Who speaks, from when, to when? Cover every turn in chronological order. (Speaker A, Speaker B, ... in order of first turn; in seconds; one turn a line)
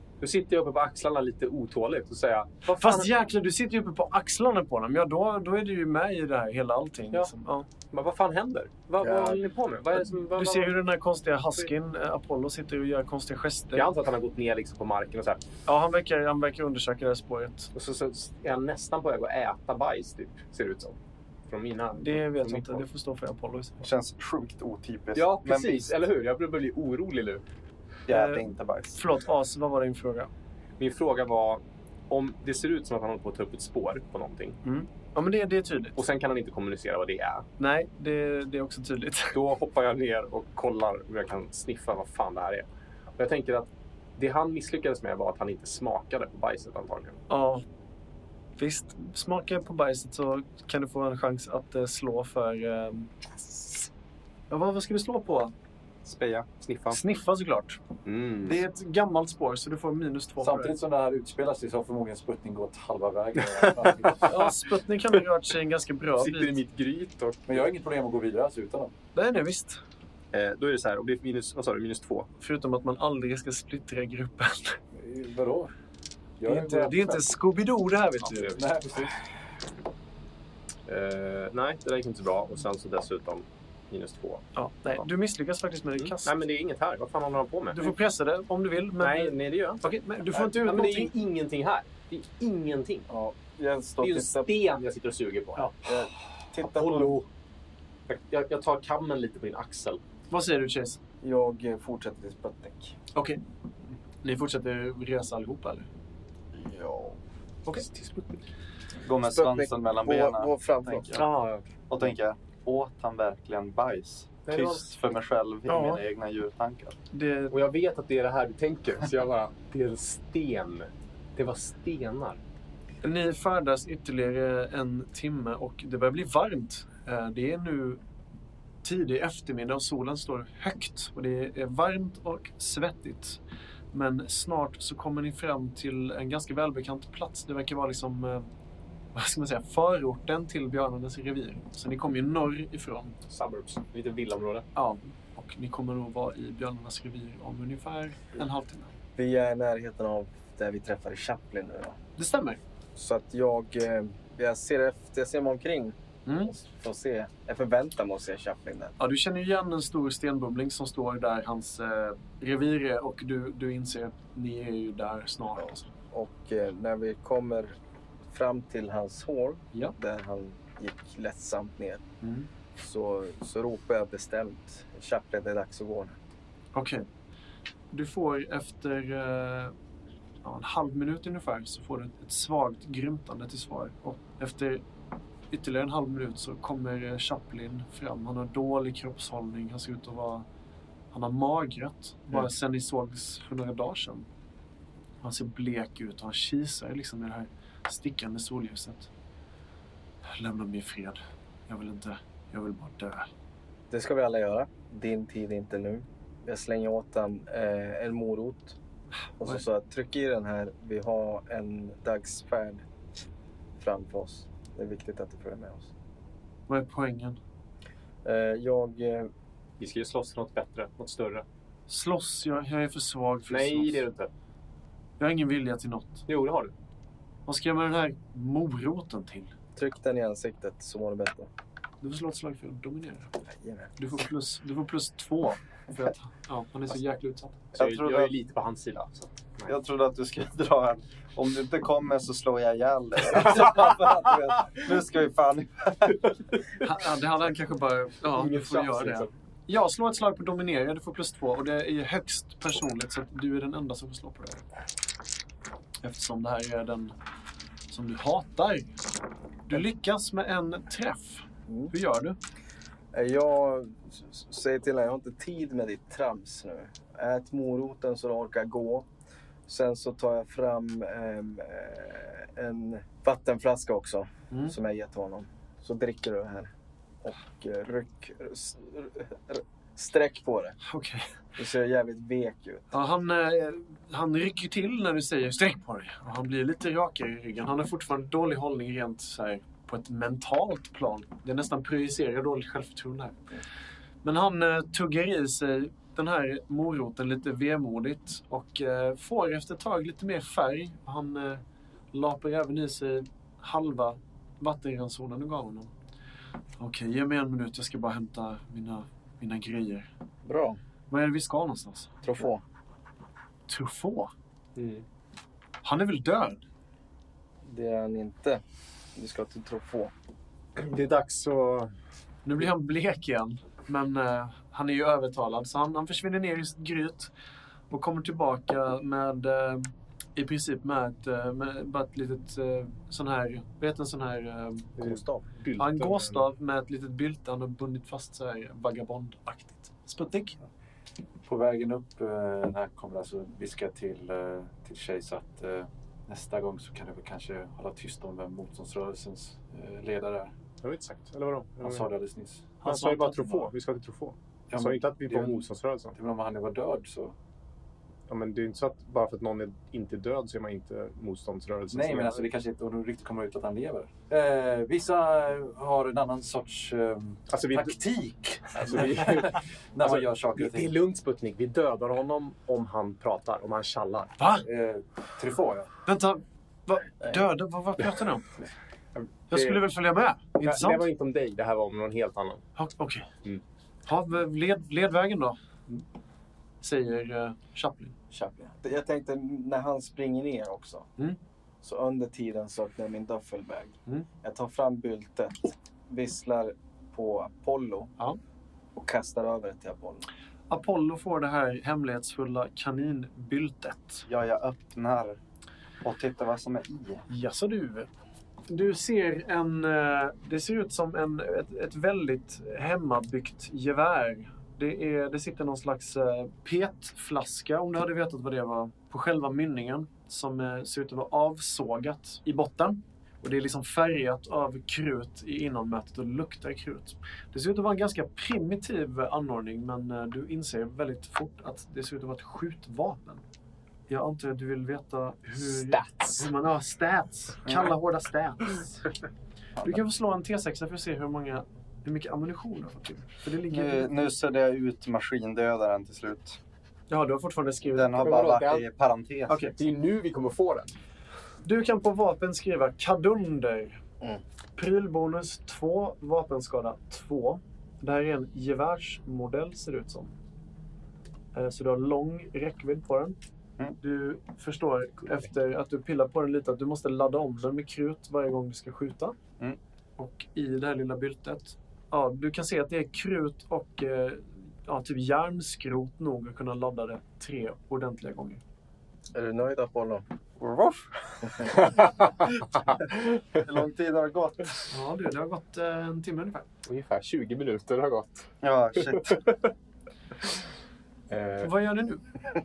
Speaker A: 0.2-3.1
Speaker B: 2.7-7.7
Speaker A: 7.9-10.8
Speaker C: 9.0-9.4
Speaker B: 10.3-13.9
Speaker A: 13.8-15.4
Speaker B: 15.7-17.7
Speaker A: 17.7-21.0
Speaker A: 21.5-22.9
Speaker B: 22.0-23.9
Speaker D: 23.8-25.9
Speaker A: 25.1-27.4
Speaker D: 28.1-29.0
Speaker B: 28.1-30.3
Speaker A: 30.8-34.6
Speaker B: 34.6-36.0
Speaker A: 36.0-37.5
Speaker B: 37.6-39.4
Speaker A: 39.3-42.7
Speaker A: 43.2-47.2
Speaker B: 47.3-47.6
Speaker B: 48.6-53.9
Speaker B: 54.5-55.5
Speaker D: 56.0-56.5
Speaker A: 56.6-57.0
Speaker B: 56.9-57.8
Speaker A: 58.0-58.6
Speaker B: 58.4-60.7
Speaker E: 60.4-64.5
Speaker B: 64.2-66.6
Speaker A: 66.2-67.7
Speaker E: 67.5-68.9
Speaker B: 69.2-69.8
Speaker A: 70.3-72.3
Speaker B: 72.4-74.8
Speaker E: 74.9-75.7
Speaker E: 76.4-77.3
Speaker B: 76.5-78.6
Speaker A: 78.2-78.7
Speaker E: 78.6-79.2
Speaker A: 80.9-84.5
Speaker B: 84.5-86.3
Speaker A: 86.0-88.0
Speaker B: 87.7-91.1
Speaker A: 89.0-93.1
Speaker C: 93.1-94.5
Speaker A: 94.0-95.9
Speaker C: 95.8-97.2
Speaker A: 96.7-97.3
Speaker A: 98.1-100.0
Speaker B: 100.3-101.0
Speaker C: 101.2-103.0
Speaker B: 103.2-103.4
Speaker B: 104.2-105.9
Speaker C: 106.5-107.2
Speaker A: 107.7-108.4
Speaker D: 109.0-111.1
Speaker C: 109.2-111.2
Speaker A: 111.1-111.7
Speaker D: 111.9-117.0
Speaker A: 114.5-114.9
Speaker B: 115.7-116.0
Speaker B: 117.1-117.6
Speaker A: 117.5-122.4
Speaker B: 123.0-128.0
Speaker B: 128.8-133.4
Speaker B: 133.9-138.5
Speaker B: 139.1-143.2
Speaker A: 143.3-144.7
Speaker B: 144.8-148.9
Speaker C: 149.2-152.0
Speaker B: 152.2-152.6
Speaker C: 153.0-158.9
Speaker B: 156.3-156.5
Speaker B: 159.0-165.9
Speaker C: 165.6-167.8
Speaker C: 168.3-172.0
Speaker B: 172.2-172.5
Speaker C: 172.8-176.2
Speaker B: 176.7-177.1
Speaker B: 177.9-179.8
Speaker B: 180.4-184.8
Speaker B: 185.5-190.5
Speaker B: 191.1-194.3
Speaker B: 195.2-199.1
Speaker B: 200.2-203.3
Speaker C: 203.9-208.8
Speaker C: 209.4-212.8
Speaker C: 213.8-215.9
Speaker B: 216.7-217.4
Speaker C: 218.2-219.3
Speaker A: 219.8-221.5
Speaker B: 221.9-224.1
Speaker A: 223.5-224.3
Speaker B: 225.2-226.2
Speaker A: 226.3-226.7
Speaker B: 227.5-229.5
Speaker C: 229.8-231.5
Speaker B: 232.0-233.3
Speaker C: 233.5-233.9
Speaker B: 234.0-237.6
Speaker A: 237.7-239.8
Speaker D: 237.8-238.3
Speaker D: 239.7-246.3
Speaker B: 246.8-254.7
Speaker A: 248.3-249.3
Speaker B: 256.0-257.1
Speaker B: 257.9-258.9
Speaker B: 259.7-262.4
Speaker C: 261.7-261.9
Speaker C: 263.1-269.1
Speaker C: 269.7-276.7
Speaker C: 277.2-280.8
Speaker B: 280.9-281.3
Speaker C: 281.6-282.9
Speaker B: 282.9-293.5
Speaker B: 294.2-305.9
Speaker B: 306.8-310.1
Speaker C: 310.4-310.8
Speaker B: 311.1-312.2
Speaker C: 312.2-312.6
Speaker B: 313.7-314.3
Speaker A: 314.8-315.1
Speaker B: 315.8-316.6
Speaker C: 317.6-318.6
Speaker C: 319.1-320.1
Speaker A: 320.8-321.9
Speaker B: 322.4-327.3
Speaker B: 327.9-335.0
Speaker A: 335.0-336.5
Speaker C: 335.0-335.3
Speaker B: 335.8-340.6
Speaker E: 341.4-350.5
Speaker A: 350.8-352.1
Speaker E: 351.8-352.7
Speaker B: 352.8-353.7
Speaker A: 352.8-356.2
Speaker E: 354.7-355.6
Speaker E: 356.1-357.4
Speaker A: 358.3-362.5
Speaker E: 361.9-371.0
Speaker A: 367.5-368.0
Speaker A: 368.8-374.4
Speaker B: 374.4-374.7
Speaker E: 374.6-375.9
Speaker B: 376.1-378.6
Speaker A: 379.1-379.9
Speaker B: 379.5-381.1
Speaker A: 380.6-382.6
Speaker B: 382.8-383.3
Speaker B: 384.1-385.6
Speaker B: 386.8-388.1
Speaker C: 388.3-391.1
Speaker C: 391.8-398.1
Speaker C: 398.9-400.3
Speaker B: 400.7-404.3
Speaker D: 404.3-405.4
Speaker D: 406.0-407.2
Speaker B: 407.3-408.1
Speaker B: 408.7-433.4
Speaker B: 434.1-439.1
Speaker A: 435.6-436.5
Speaker D: 437.7-437.9
Speaker B: 439.8-444.3
Speaker D: 443.7-446.6
Speaker B: 447.1-448.4
Speaker D: 447.9-449.6
Speaker A: 448.2-448.9
Speaker B: 449.5-449.8
Speaker A: 449.8-450.9
Speaker B: 451.6-454.0
Speaker B: 454.8-460.3
Speaker B: 461.5-463.4
Speaker B: 464.0-469.4
Speaker B: 470.2-478.6
Speaker C: 479.3-480.2
Speaker D: 480.6-481.9
Speaker C: 481.5-481.7
Speaker D: 483.0-484.8
Speaker B: 484.9-486.7
Speaker A: 486.9-488.5
Speaker D: 488.6-489.5
Speaker A: 489.0-489.4
Speaker A: 491.3-491.7
Speaker B: 491.6-492.3